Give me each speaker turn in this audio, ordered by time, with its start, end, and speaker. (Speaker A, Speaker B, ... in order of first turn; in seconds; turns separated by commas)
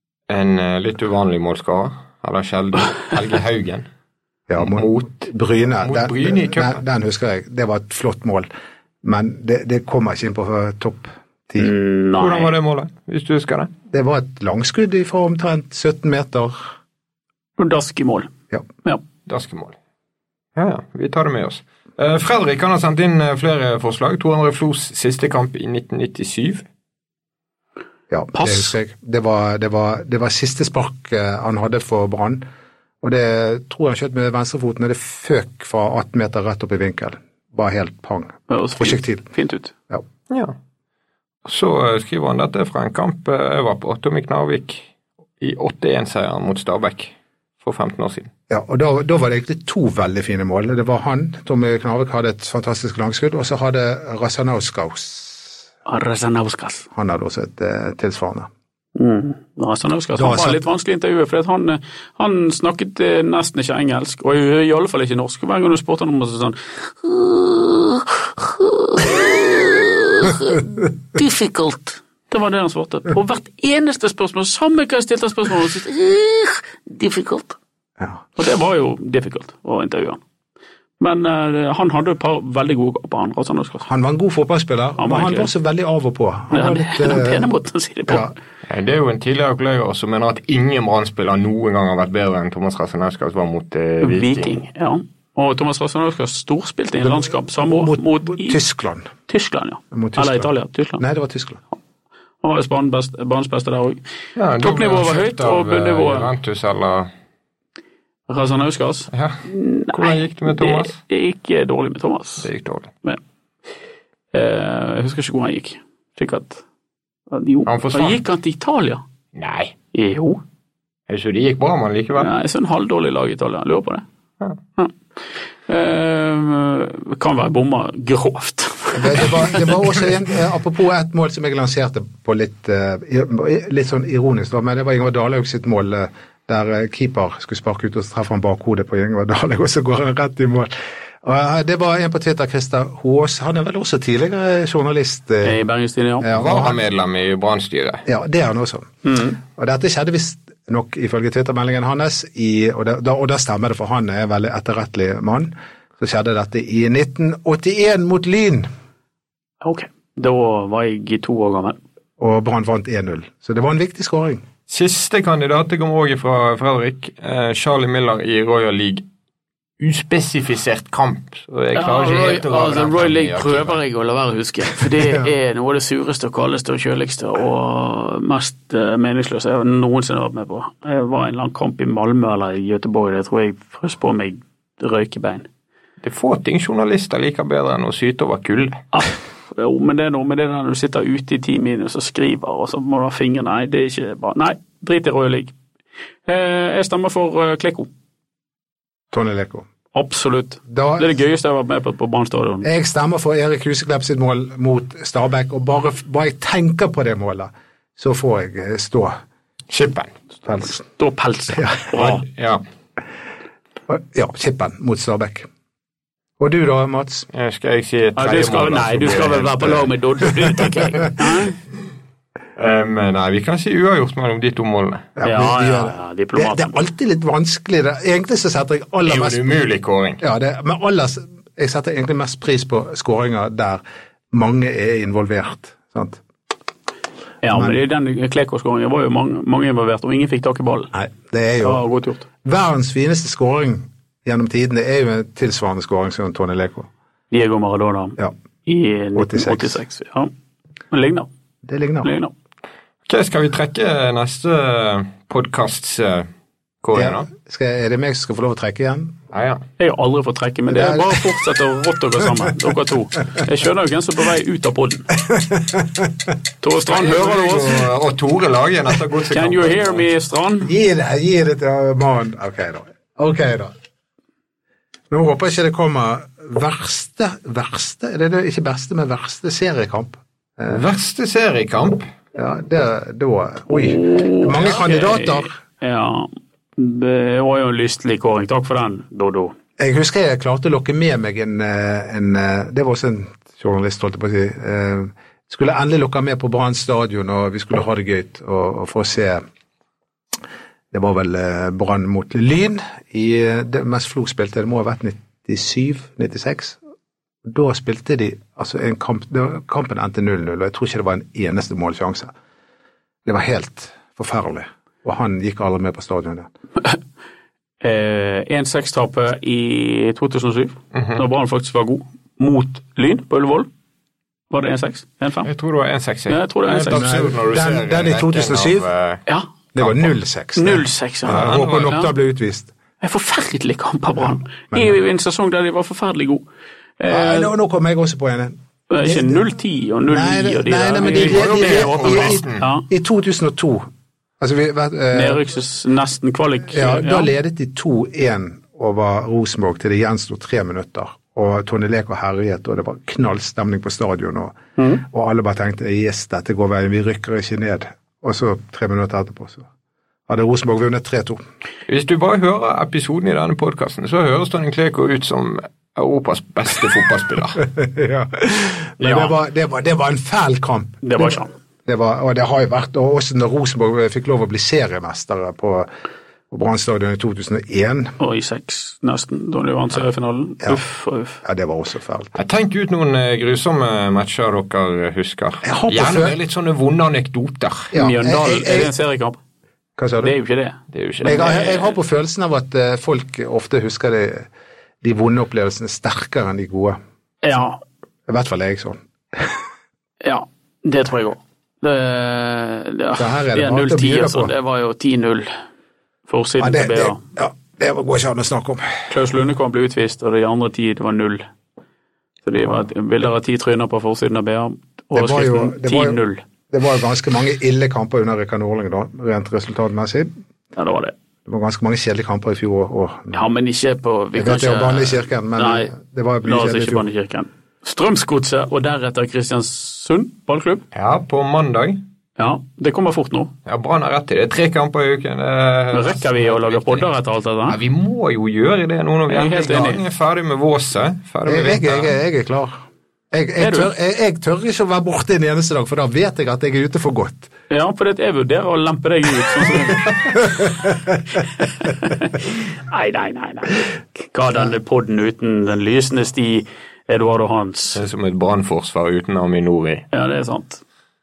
Speaker A: 0.3-3.9, Speaker B: 4.5-8.5, Speaker A: 4.6-5.2, Speaker A: 5.8-6.8, Speaker B: 9.0-11.7, Speaker C: 11.6-12.5, Speaker A: 12.2-13.7, Speaker B: 13.9-16.6, Speaker C: 17.6-18.3, Speaker A: 19.3-19.8, Speaker A: 20.6-26.6, Speaker B: 28.1-32.4, Speaker C: 28.3-28.7, Speaker B: 33.0-39.3, Speaker C: 38.5-39.7, Speaker A: 40.3-40.5, Speaker A: 41.5-44.9, Speaker A: 45.4-48.3, Speaker B: 48.5-55.5, Speaker C: 55.9-56.9, Speaker B: 56.9-58.5, Speaker C: 59.0-77.6, Speaker B: 60.2-60.6, Speaker C: 78.4-80.2, Speaker C: 81.0-83.9, Speaker B: 83.8-87.5, Speaker C: 85.0-85.5, Speaker C: 86.5-88.3, Speaker B: 88.1-88.3, Speaker A: 88.7-94.6, Speaker C: 94.0-98.6, Speaker B: 97.1-99.1, Speaker C: 99.3-101.0, Speaker B: 99.9-101.6, Speaker C: 102.4-104.0, Speaker A: 104.4-107.1, Speaker C: 104.6-106.3, Speaker C: 108.3-112.5, Speaker A: 109.1-109.4, Speaker A: 109.9-111.0, Speaker A: 112.4-112.9, Speaker C: 114.3-116.6, Speaker C: 117.3-119.0, Speaker A: 117.7-118.2, Speaker A: 119.3-119.7, Speaker C: 119.9-120.4, Speaker A: 121.1-122.3, Speaker C: 122.2-124.0, Speaker C: 125.7-130.0, Speaker B: 128.9-145.6, Speaker C: 145.4-146.3, Speaker B: 146.2-146.8, Speaker A: 146.3-148.1, Speaker B: 148.1-158.7, Speaker C: 149.0-149.4, Speaker C: 159.6-161.8, Speaker B: 162.2-164.4, Speaker A: 164.7-169.0, Speaker A: 169.8-173.8, Speaker C: 171.8-185.5, Speaker A: 186.0-188.8, Speaker C: 188.9-195.5, Speaker C: 196.3-197.9, Speaker B: 199.1-199.7, Speaker C: 199.9-202.7, Speaker B: 200.7-201.1, Speaker B: 202.6-209.2, Speaker A: 209.7-210.1, Speaker B: 210.4-210.8, Speaker C: 210.7-212.2, Speaker B: 211.6-211.9, Speaker A: 212.0-212.6, Speaker B: 213.9-215.5, Speaker B: 216.4-217.3, Speaker A: 217.3-219.9, Speaker C: 218.2-221.6, Speaker A: 222.6-225.1, Speaker B: 225.2-229.4, Speaker C: 225.2-226.8, Speaker A: 229.0-230.2, Speaker B: 230.2-236.2, Speaker C: 237.4-240.9, Speaker B: 240.9-241.8, Speaker C: 241.6-242.3, Speaker B: 242.4-246.9, Speaker C: 247.3-250.3, Speaker B: 249.2-249.8, Speaker C: 250.9-251.3, Speaker B: 251.7-252.1, Speaker C: 252.0-252.3, Speaker A: 253.1-256.3, Speaker A: 256.8-257.3, Speaker B: 256.9-259.1, Speaker A: 259.3-259.6, Speaker C: 259.8-265.1, Speaker B: 260.7-261.3, Speaker B: 265.2-266.3, Speaker C: 266.6-267.8, Speaker A: 266.9-270.1, Speaker C: 269.3-270.7, Speaker B: 270.6-273.7, Speaker B: 275.1-280.8, Speaker A: 280.7-282.1, Speaker B: 282.4-285.5, Speaker C: 283.7-289.5, Speaker B: 289.8-299.4, Speaker B: 300.9-306.8, Speaker B: 307.4-312.3, Speaker B: 313.3-316.5, Speaker C: 317.8-323.7, Speaker A: 320.9-321.2, Speaker C: 324.5-325.5, Speaker A: 325.4-329.2, Speaker C: 326.3-327.1, Speaker B: 326.9-328.9, Speaker B: 329.7-332.7, Speaker A: 329.8-330.1, Speaker C: 330.6-332.1, Speaker A: 331.3-332.0, Speaker C: 333.0-336.4, Speaker C: 337.0-337.5, Speaker B: 337.1-339.4, Speaker C: 338.9-342.9, Speaker B: 340.1-343.9, Speaker A: 341.0-342.7, Speaker B: 344.4-345.4, Speaker C: 345.1-347.3, Speaker B: 346.7-359.7, Speaker C: 354.8-355.0, Speaker B: 360.3-361.4, Speaker A: 361.9-367.6, Speaker B: 367.6-375.9, Speaker A: 369.0-369.3, Speaker C: 371.0-371.5, Speaker B: 376.5-378.1, Speaker C: 378.2-381.4, Speaker B: 381.4-382.4, Speaker A: 382.4-387.9, Speaker B: 385.6-386.4, Speaker B: 387.9-388.9, Speaker C: 387.9-389.4, Speaker B: 390.0-390.4, Speaker C: 390.2-391.9, Speaker A: 390.9-391.6, Speaker B: 391.2-394.5, Speaker B: 395.0-397.0, Speaker C: 397.4-397.8, Speaker B: 398.3-399.6, Speaker C: 400.2-405.5, Speaker B: 403.2-404.5, Speaker C: 406.3-407.2, Speaker B: 406.6-409.0, Speaker C: 409.1-411.5, Speaker C: 412.4-416.4, Speaker B: 415.1-420.3, Speaker C: 420.8-421.1, Speaker B: 421.5-423.4, Speaker C: 423.3-425.9, Speaker B: 424.4-427.1, Speaker C: 426.4-430.8, Speaker A: 430.9-432.0, Speaker C: 432.4-433.5, Speaker A: 433.7-437.1, Speaker C: 435.9-437.8, Speaker A: 437.7-442.1, Speaker C: 439.3-440.0, Speaker B: 441.5-442.8, Speaker B: 443.3-447.5, Speaker C: 443.6-443.9, Speaker C: 447.7-450.1, Speaker C: 451.4-458.0, Speaker A: 457.9-460.1, Speaker C: 460.1-460.8